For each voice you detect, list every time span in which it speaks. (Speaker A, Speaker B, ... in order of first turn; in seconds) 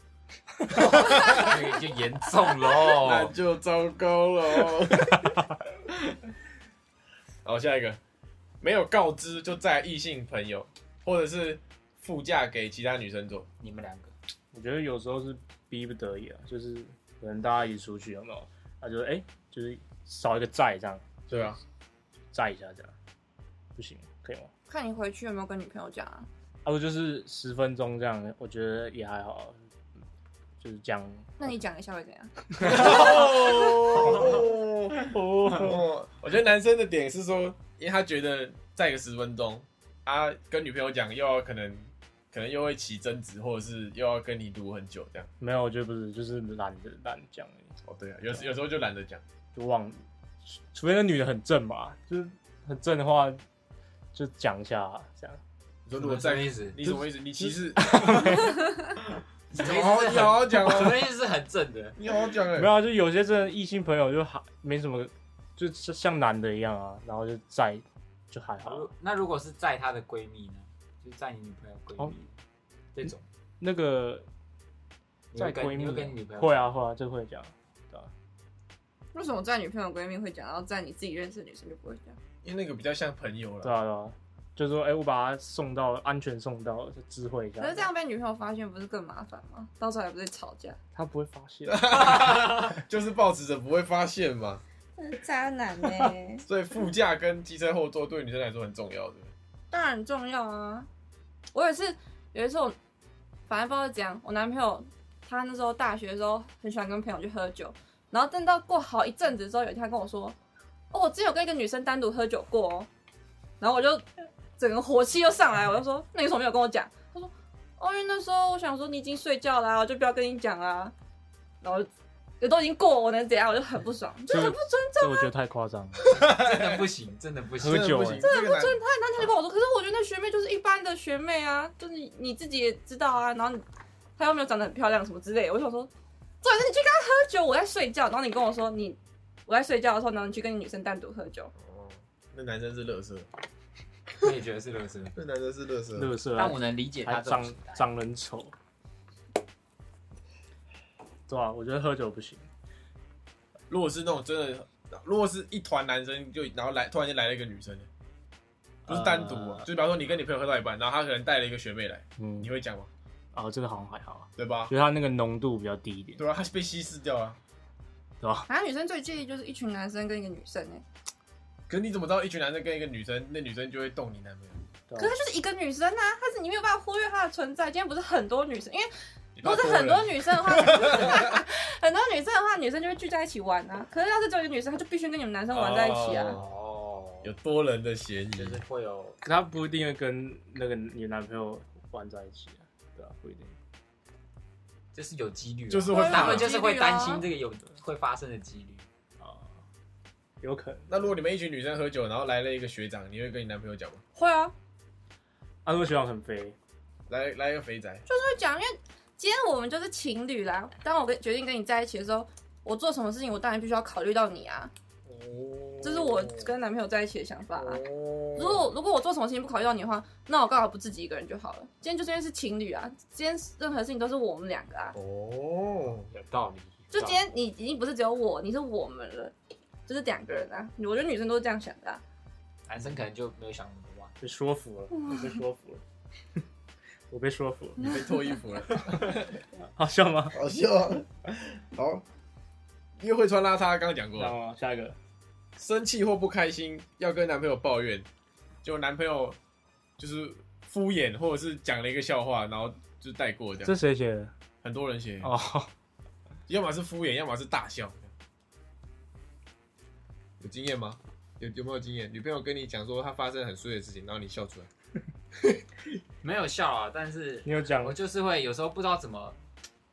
Speaker A: 0.7-1.6, 2.9-5.4, 7.4-8.0, 8.6-13.5, 21.3-21.6, 32.6-45.3, 47.9-49.2, 55.9-58.4, 59.5-61.1, 62.0-62.7, 82.4-83.7, 91.7-94.6, 96.5-99.3, 126.0-126.9, 127.6-128.8, 141.6-143.3, 145.2-146.1, 153.7-157.9, 158.9-162.9, 164.4-164.7, 166.2-167.4, 171.7-174.6, 179.4-181.4, 185.5-186.5, 187.2-188.6, 195.7-196.5, 200.9-204.0, 207.1-208.1, 217.5-218.7, 224.9-226.1, 237.8-239.2, 240.3-242.0, 243.0-244.3, 245.6-248.1, 248.6-249.4, 250.0-253.8, 254.6-255.3, 256.5-258.1, 260.4-264.7
Speaker B: 1.0-3.3, 13.6-14.1, 56.0-56.8, 59.5-62.0, 68.6-72.3, 72.9-73.2, 75.3-76.7, 126.1-128.0, 144.2-145.2, 146.4-147.8, 186.3-187.3, 188.4-189.2, 194.9-198.9, 226.1-227.2, 232.7-234.2, 266.2-269.4
Speaker C: 14.5-21.6, 22.3-22.9, 23.8-24.5, 26.6-29.6, 30.6-31.5, 32.6-33.0, 34.0-34.3, 35.0-35.8, 45.4-47.7, 49.5-53.4, 54.1-55.4, 57.4-58.7, 62.5-68.9, 73.6-74.2, 75.4-78.1, 83.6-87.9, 91.0-92.2, 124.3-126.2, 127.6-128.3, 145.9-148.5, 151.3-152.4, 158.9-159.7, 162.2-162.5, 163.3-166.2, 168.2-168.5, 174.9-175.1, 189.2-193.5, 199.2-199.5, 200.4-201.0, 205.7-206.6, 215.1-216.4, 234.2-235.8, 237.1-237.8, 238.9-240.4, 244.2-245.0, 253.6-254.3, 255.2-255.7, 267.4-268.0
Speaker D: 24.7-26.3, 31.4-34.3, 79.1-82.2, 87.6-90.8, 95.0-96.5, 99.7-100.9, 101.5-102.8, 103.5-110.4, 110.9-112.9, 113.6-114.0, 114.6-120.9, 121.6-121.9, 122.4-125.3, 128.2-133.6, 134.2-135.9, 136.4-141.5, 168.5-170.8, 175.0-186.4, 195.9-197.2, 204.2-204.5, 208.1-214.7, 215.8-217.8, 218.3-225.0, 226.9-229.3, 229.9-232.0